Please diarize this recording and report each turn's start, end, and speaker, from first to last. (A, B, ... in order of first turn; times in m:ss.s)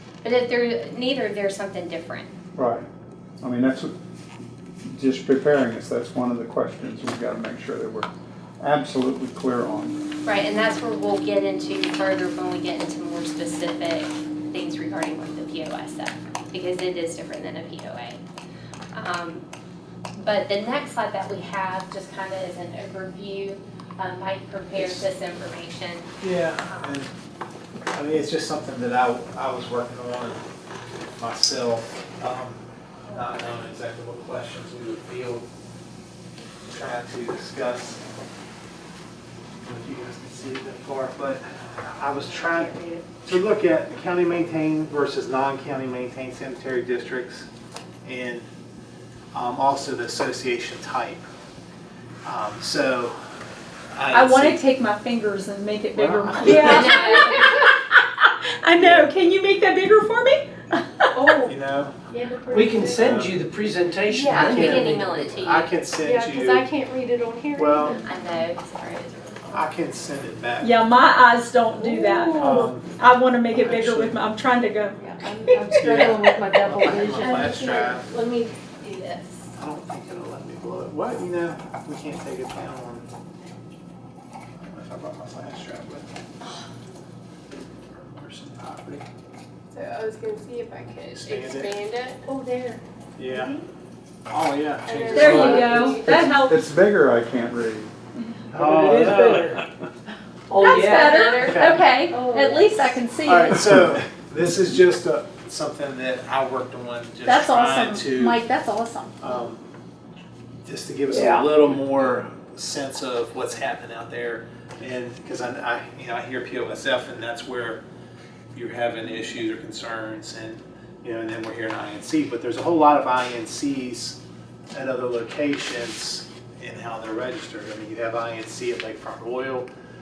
0:00.2-0:02.3 A
0:02.5-0:02.8 B
0:03.4-0:03.9 B
0:04.8-0:08.1 B
0:08.6-0:10.0 B
0:10.2-0:18.2 A
0:18.9-0:19.4 A
0:20.2-0:26.0 A
0:24.7-0:25.0 C
0:26.2-0:27.1 C
0:26.6-0:27.0 A
0:27.9-0:30.4 C
0:31.2-0:35.5 C
0:36.7-0:38.0 C
0:39.6-0:47.5 C
0:42.4-0:43.0 A
0:48.0-0:48.4 C
0:49.3-0:51.2 C
0:52.2-0:53.1 C
0:53.9-0:54.6 C
0:54.1-1:01.1 D
0:56.0-0:56.4 B
0:56.0-0:57.0 C
0:56.5-0:57.7 A
0:58.8-0:59.1 C
1:01.1-1:01.6 E
1:01.4-1:02.0 C
1:02.1-1:03.1 E
1:02.5-1:05.2 F
1:02.8-1:03.4 C
1:04.1-1:04.5 E
1:04.2-1:05.7 A
1:04.3-1:06.7 C
1:06.0-1:08.0 E
1:07.5-1:08.0 C
1:08.0-1:09.7 A
1:09.5-1:10.8 C
1:10.6-1:15.0 D
1:11.8-1:12.6 E
1:12.4-1:12.9 C
1:13.5-1:14.2 C
1:15.0-1:18.0 E
1:15.6-1:18.0 C
1:17.2-1:19.5 A
1:19.6-1:23.1 C
1:24.6-1:26.1 C
1:27.5-1:29.0 C
1:29.7-1:32.8 E
1:31.1-1:31.8 C
1:33.2-1:33.5 C
1:34.3-1:36.0 C
1:34.8-1:36.0 E
1:35.1-1:36.7 D
1:35.9-1:37.9 B
1:38.2-1:38.4 D
1:38.5-1:39.5 C
1:38.6-1:39.6 F
1:40.5-1:41.3 F
1:40.5-1:43.9 D
1:40.6-1:41.6 A
1:41.3-1:41.9 C
1:42.1-1:42.8 E
1:43.2-1:48.4 C
1:47.2-1:49.2 D
1:49.2-1:49.6 C
1:50.6-1:57.8 C
1:58.5-2:04.2 C
2:04.7-2:09.7 C